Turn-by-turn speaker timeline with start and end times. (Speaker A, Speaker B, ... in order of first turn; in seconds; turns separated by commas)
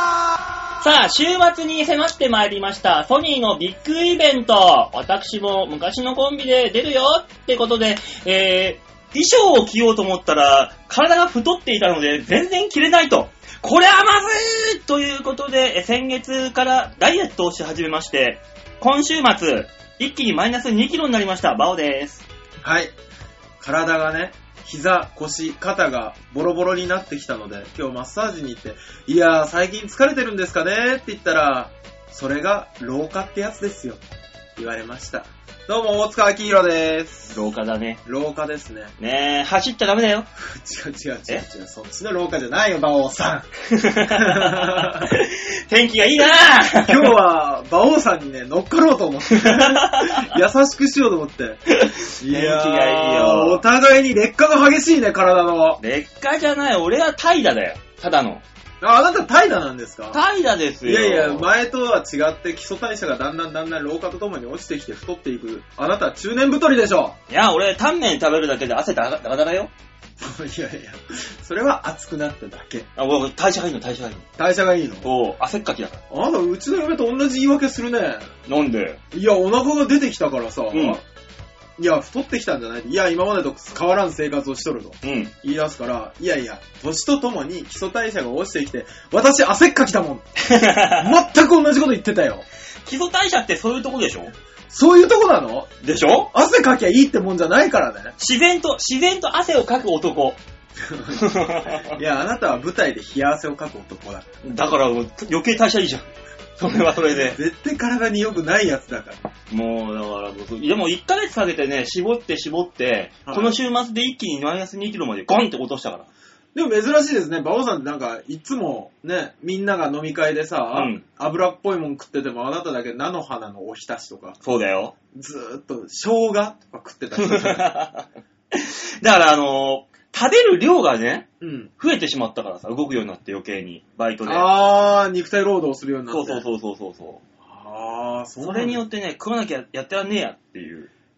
Speaker A: 0.8-22.2, Speaker B: 22.6-22.9, Speaker B: 23.6-34.0, Speaker B: 34.5-37.4, Speaker A: 37.3-38.0, Speaker B: 38.0-38.9, Speaker A: 39.0-40.3, Speaker B: 40.4-43.5, Speaker A: 43.6-47.1, Speaker B: 44.1-45.1, Speaker B: 46.8-55.8, Speaker A: 49.3-50.4, Speaker A: 51.8-53.6, Speaker A: 55.8-58.4, Speaker B: 58.8-60.2, Speaker A: 60.1-61.5, Speaker B: 60.8-67.2, Speaker A: 67.3-69.7, Speaker B: 70.2-72.9, Speaker A: 73.0-74.3, Speaker B: 74.4-75.1, Speaker A: 75.0-76.0, Speaker B: 76.1-78.3, Speaker A: 78.5-79.0, Speaker B: 79.1-81.0, Speaker A: 80.7-81.0, Speaker B: 81.8-90.3, Speaker A: 85.0-85.3, Speaker A: 90.4-91.1, Speaker B: 90.9-92.5, Speaker A: 92.8-94.3, Speaker B: 94.7-95.7, Speaker A: 95.8-96.3, Speaker B: 96.3-98.1, Speaker A: 98.2-100.4, Speaker B: 100.8-104.2, Speaker A: 101.1-102.0, Speaker A: 104.4-106.0, Speaker A: 106.6-107.4, Speaker B: 107.2-109.2, Speaker A: 109.5-116.1, Speaker B: 113.3-113.6, Speaker B: 116.5-124.4, Speaker A: 120.7-121.0, Speaker A: 124.4-124.9, Speaker B: 125.1-127.7, Speaker A: 127.2-131.3, Speaker B: 131.4-131.7, Speaker A: 131.8-134.5, Speaker B: 134.2-136.4, Speaker A: 136.1-137.2, Speaker B: 137.4-138.8, Speaker A: 138.4-140.9